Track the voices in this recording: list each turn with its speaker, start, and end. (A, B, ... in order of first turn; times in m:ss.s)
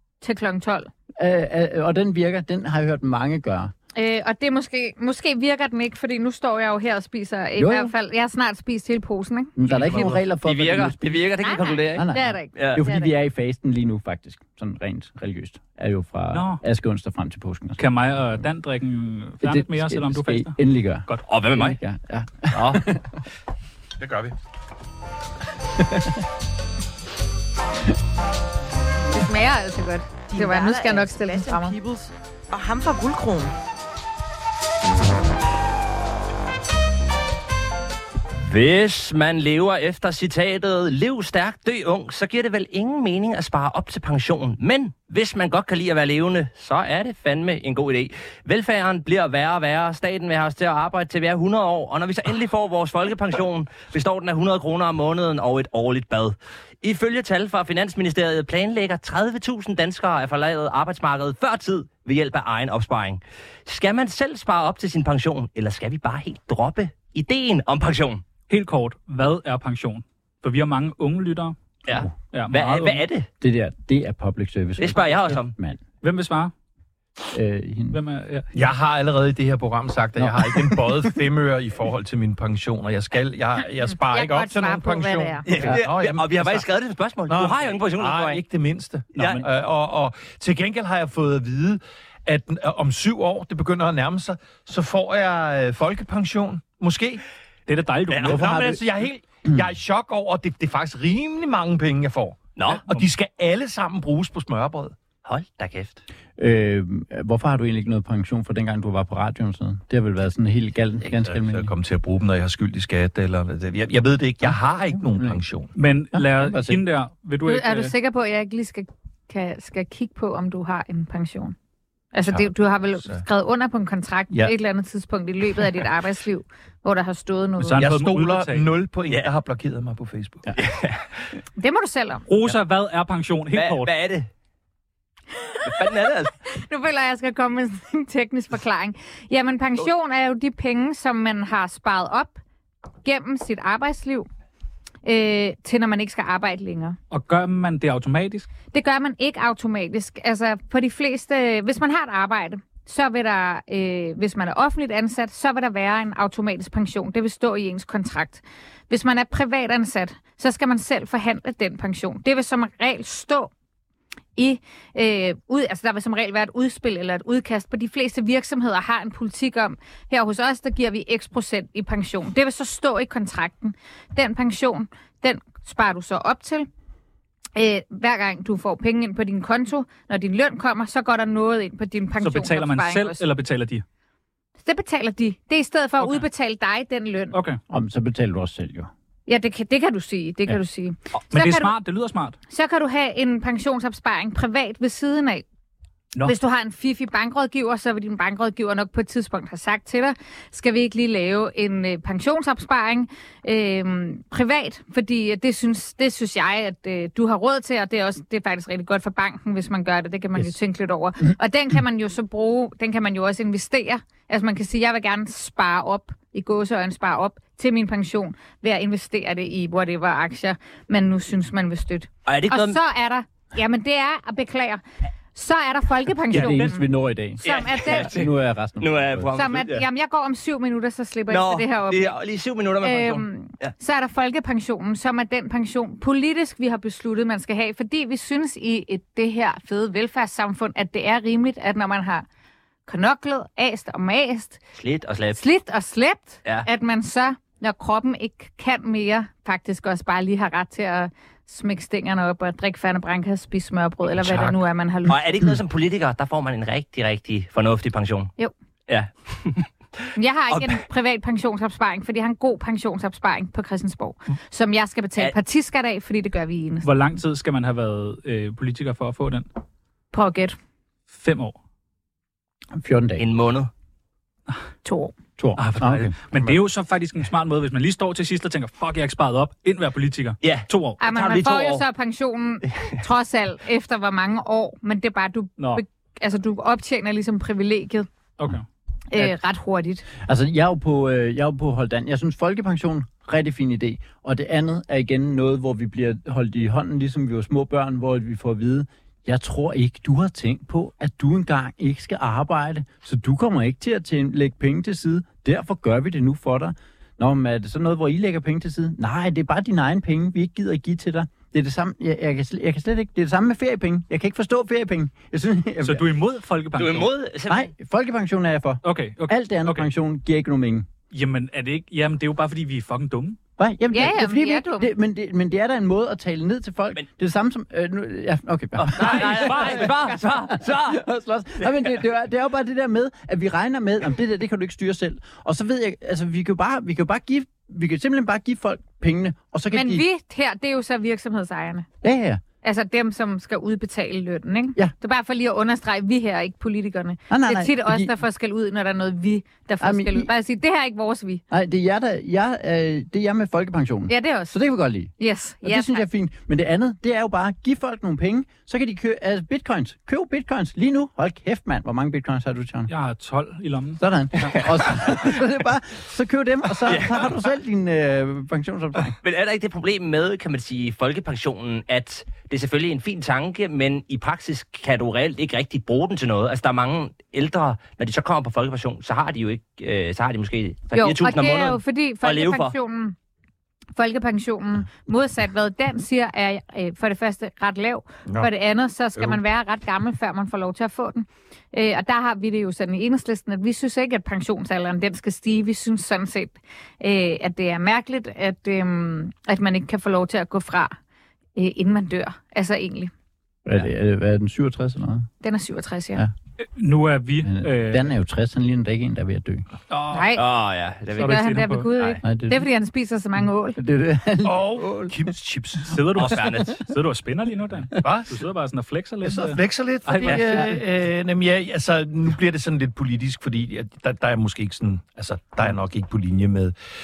0:00.2-0:00.9 A
0:01.2-0:03.7 B
0:04.0-0:09.8 A
0:07.6-0:07.9 B
0:09.6-0:17.8 B
0:09.6-0:10.2 C
0:09.9-0:12.8 D
0:11.4-0:13.1 A
0:16.3-0:16.6 C
0:17.8-0:20.6 C
0:19.4-0:23.2 B
0:21.3-0:21.8 D
0:22.5-0:22.9 D
0:24.0-0:24.3 E
0:25.8-0:26.2 B
0:29.1-0:31.8 A
0:30.3-0:33.5 F
0:38.4-1:08.2 D
1:08.5-1:11.6 C
1:11.8-1:13.3 D
1:11.9-1:12.7 B
1:12.3-1:12.9 C
1:13.4-1:15.8 B
1:14.8-1:15.5 D
1:16.0-1:16.5 C
1:17.3-1:18.0 B
1:17.9-1:18.5 C
1:18.5-1:26.7 E
1:20.2-1:21.1 B
1:23.9-1:25.4 A
1:25.4-1:28.4 D
1:27.3-1:37.2 E
1:29.2-1:29.4 D
1:37.7-1:38.6 C
1:38.1-1:38.4 D
1:38.2-1:45.0 E
1:38.3-1:38.8 B
1:42.6-1:43.0 D
1:45.2-1:46.0 D
1:46.4-1:51.7 B
1:51.2-1:55.7 E
1:54.4-1:55.4 B
1:55.8-1:57.9 C
1:56.1-1:56.8 B
1:57.4-2:01.5 A
2:02.1-2:07.8 A
2:02.2-2:03.2 E
2:07.6-2:08.7 C
2:07.8-2:10.5 E
2:10.6-2:11.2 D
2:11.6-2:12.2 A
2:12.3-2:13.9 C
2:13.5-2:14.3 D
2:15.4-2:16.0 A
2:15.6-2:16.3 D
2:16.5-2:22.4 A
2:23.0-2:24.3 A
2:25.0-2:27.0 A
2:27.1-2:28.5 C
2:28.7-2:43.5 A
2:44.4-2:56.7 A
2:57.6-3:03.2 A
3:02.2-3:03.8 C
3:04.6-3:07.4 A
3:07.3-3:07.6 C
3:07.7-3:08.9 B
3:09.3-3:11.7 A
3:11.3-3:12.4 C
3:12.5-3:15.4 A
3:16.2-3:44.8 A
3:42.2-3:42.8 D
3:45.3-3:46.8 A
3:46.3-3:49.3 B
3:46.4-3:46.7 C
3:47.4-3:48.2 A
3:47.4-3:48.3 D
3:48.8-3:49.8 D
3:49.3-3:52.2 A
3:51.3-3:53.7 D
3:52.8-4:02.2 A
4:02.8-4:04.6 A
4:04.7-4:05.4 D
4:05.3-4:15.3 A
4:15.1-4:18.3 D
4:18.9-4:19.7 D
4:20.1-4:26.9 A
4:20.5-4:20.8 D
4:26.8-4:29.5 C
4:30.1-4:30.6 A
4:31.1-4:31.6 C
4:32.8-4:33.2 B
4:33.2-4:33.7 D
4:34.8-4:35.1 A
4:35.4-4:36.2 B
4:35.6-4:41.0 C
4:40.4-4:41.8 D
4:41.0-4:48.1 A
4:48.4-4:48.6 C
4:49.1-4:50.0 A
4:50.2-5:16.1 B
5:15.8-5:17.1 C
5:16.8-5:17.7 D
5:17.5-5:20.9 B
5:18.8-5:19.9 C
5:21.1-5:23.4 C
5:23.6-5:30.0 B
5:23.9-5:24.9 A
5:28.8-5:31.0 D
5:29.0-5:29.9 C
5:30.5-5:40.0 B
5:39.7-5:41.9 A
5:42.0-5:42.4 B
5:42.6-5:51.4 A
5:47.3-5:48.1 B
5:49.8-5:50.3 B
5:51.5-6:02.9 B
5:54.1-5:54.6 A
5:55.2-5:56.0 A
6:02.9-6:04.6 C
6:04.0-6:09.2 B
6:06.8-6:07.3 D
6:09.1-6:22.7 D
6:20.9-6:23.2 A
6:24.0-6:40.9 A
6:41.6-6:43.1 A
6:43.6-6:45.3 B
6:45.4-6:46.2 A
6:46.8-6:48.1 C
6:47.4-6:49.6 B
6:49.9-6:50.3 E
6:50.1-6:50.4 A
6:50.3-6:51.4 D
6:51.1-6:53.8 A
6:51.2-6:51.9 C
6:52.2-6:52.7 B
6:53.7-6:55.3 B
6:54.4-6:56.0 E
6:55.9-7:00.7 C
6:56.2-6:56.8 D
6:58.0-6:58.3 E
6:59.2-7:06.7 E